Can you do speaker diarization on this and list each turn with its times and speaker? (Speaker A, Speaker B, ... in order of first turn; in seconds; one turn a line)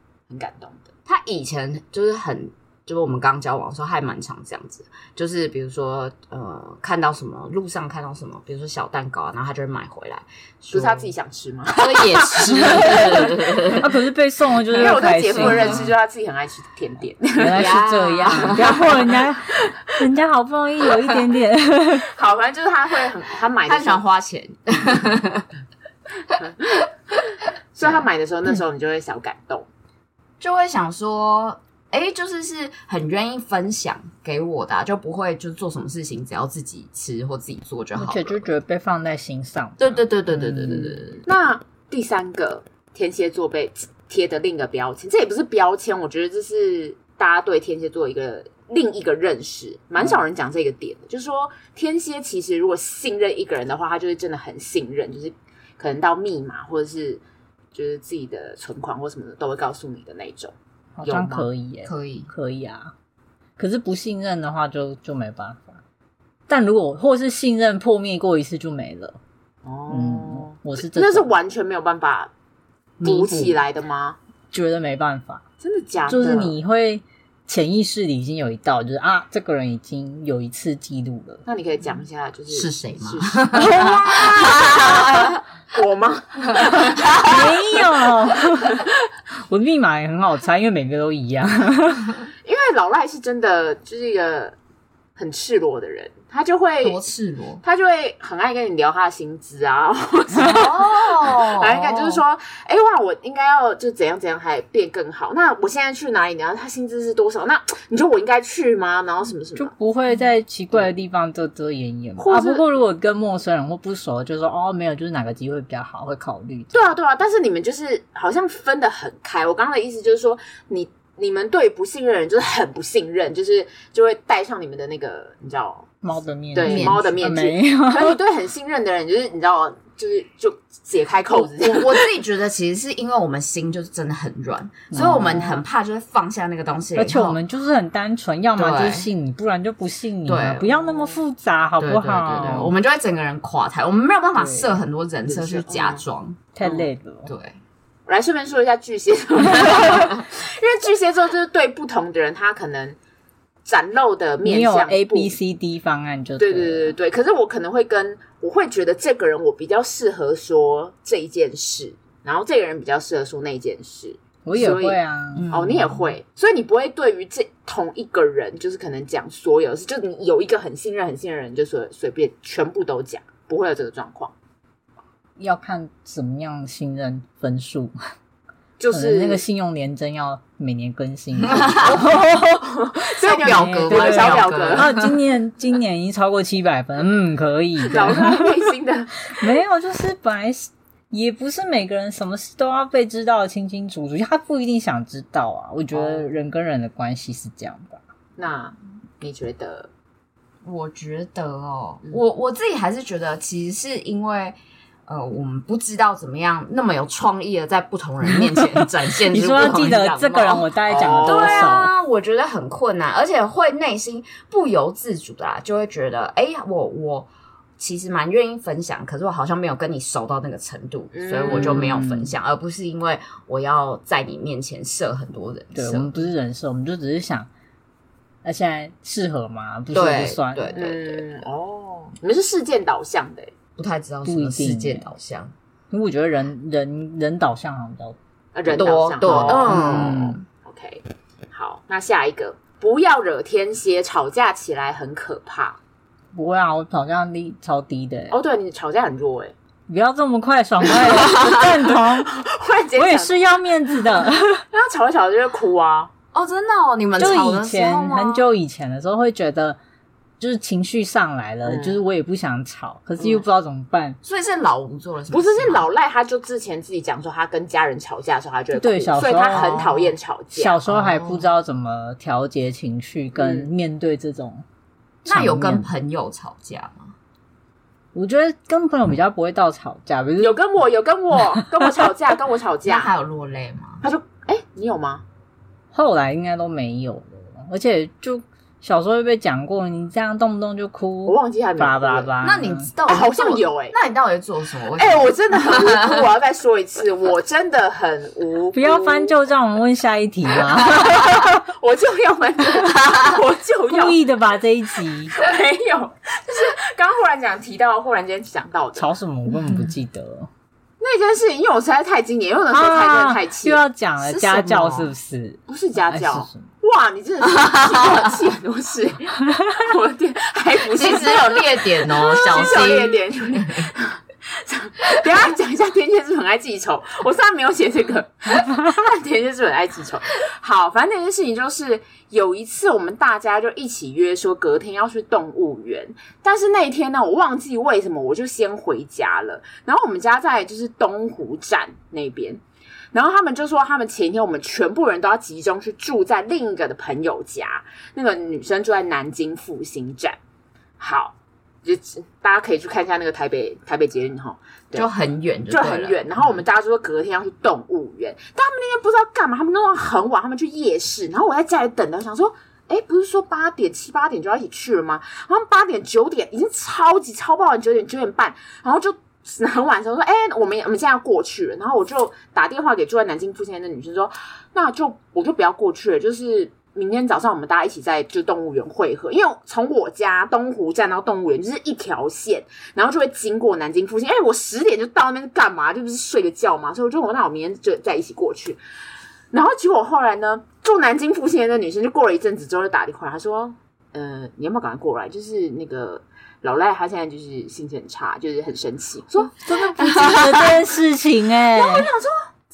Speaker A: 0.3-0.9
Speaker B: 1.1-11.1
Speaker A: 10.7-13.1
Speaker B: 11.7-13.9
Speaker C: 12.5-15.9
Speaker A: 14.7-17.7
Speaker B: 15.3-15.9
Speaker C: 17.4-22.1
Speaker B: 17.5-19.0
Speaker A: 22.1-24.0
Speaker B: 23.6-25.5
Speaker A: 26.3-26.9
Speaker A: 27.7-29.7
Speaker B: 30.4-38.4
Speaker C: 38.0-41.0
Speaker B: 39.8-41.2
Speaker A: 41.2-57.2
Speaker A: 57.7-61.5
Speaker C: 61.0-62.9
Speaker B: 61.8-62.3
Speaker C: 63.6-65.8
Speaker C: 66.5-69.2
Speaker A: 69.7-72.3
Speaker C: 69.9-71.3
Speaker B: 73.0-73.5
Speaker A: 73.0-74.2
Speaker C: 74.5-75.4
Speaker A: 75.6-76.5
Speaker C: 76.1-81.4
Speaker A: 81.5-83.8
Speaker B: 82.5-85.3
Speaker C: 83.5-85.1
Speaker A: 84.5-87.8
Speaker C: 87.1-88.9
Speaker C: 89.5-92.2
Speaker A: 92.4-94.5
Speaker A: 95.2-97.0
Speaker B: 96.8-97.6
Speaker A: 97.6-109.7
Speaker B: 100.4-102.2
Speaker C: 109.5-116.9
Speaker A: 112.2-112.6
Speaker A: 116.7-125.9
Speaker C: 126.0-128.2
Speaker A: 126.5-132.1
Speaker B: 126.6-127.2
Speaker B: 131.3-137.4
Speaker C: 134.9-135.5
Speaker A: 134.9-135.6
Speaker C: 136.9-142.7
Speaker B: 138.5-139.1
Speaker B: 140.2-141.0
Speaker B: 141.8-146.4
Speaker C: 144.4-144.7
Speaker A: 145.2-146.0
Speaker C: 146.5-147.3
Speaker A: 146.6-146.9
Speaker B: 147.2-147.6
Speaker A: 148.1-153.0
Speaker A: 153.7-155.3
Speaker C: 154.4-156.9
Speaker A: 156.4-165.0
Speaker C: 164.4-165.5
Speaker B: 165.3-166.1
Speaker A: 165.5-174.3
Speaker C: 175.4-177.9
Speaker A: 178.8-179.4
Speaker C: 178.9-182.7
Speaker B: 181.5-181.9
Speaker A: 181.8-184.9
Speaker B: 183.2-185.2
Speaker C: 183.4-188.6
Speaker A: 187.9-189.4
Speaker C: 189.3-198.0
Speaker A: 195.9-196.3
Speaker A: 198.4-199.9
Speaker B: 200.6-226.2
Speaker C: 209.2-211.9
Speaker A: 210.9-211.6
Speaker A: 221.1-221.9
Speaker C: 221.5-222.3
Speaker C: 225.7-227.5
Speaker C: 228.4-230.8
Speaker B: 229.9-231.2
Speaker A: 230.7-233.5
Speaker B: 233.8-235.5
Speaker C: 234.2-235.1
Speaker C: 235.9-238.2
Speaker A: 238.5-245.8
Speaker B: 238.7-240.4
Speaker C: 239.2-240.3
Speaker C: 246.3-248.3
Speaker A: 248.3-249.5
Speaker C: 249.9-252.3
Speaker B: 251.1-251.6
Speaker A: 252.2-253.3
Speaker C: 252.9-254.6
Speaker A: 254.7-256.1
Speaker B: 256.3-258.4
Speaker C: 257.2-259.8
Speaker C: 260.4-264.2
Speaker A: 261.6-262.0
Speaker B: 264.2-265.9
Speaker A: 265.3-270.8
Speaker C: 268.7-269.8
Speaker B: 269.5-270.1
Speaker C: 270.5-274.6
Speaker B: 270.9-271.5
Speaker A: 273.4-273.7
Speaker C: 275.2-275.9
Speaker B: 275.2-277.1
Speaker C: 278.1-280.6
Speaker A: 280.4-283.1
Speaker B: 282.9-284.0
Speaker A: 284.0-285.2
Speaker C: 285.9-292.9
Speaker A: 291.2-292.3
Speaker B: 292.4-296.2
Speaker A: 293.1-293.9
Speaker A: 294.9-299.3
Speaker C: 298.7-301.6
Speaker A: 300.6-304.2
Speaker C: 303.9-305.3
Speaker A: 305.3-309.1
Speaker C: 308.9-310.5
Speaker A: 311.0-313.8
Speaker C: 312.7-316.7
Speaker B: 314.2-315.1
Speaker A: 315.7-342.6
Speaker B: 317.6-318.1
Speaker B: 320.9-323.9
Speaker A: 343.1-350.4
Speaker A: 351.0-355.1
Speaker B: 354.9-356.6
Speaker A: 355.7-388.8
Speaker A: 389.5-400.7
Speaker C: 399.5-402.1
Speaker A: 401.7-402.4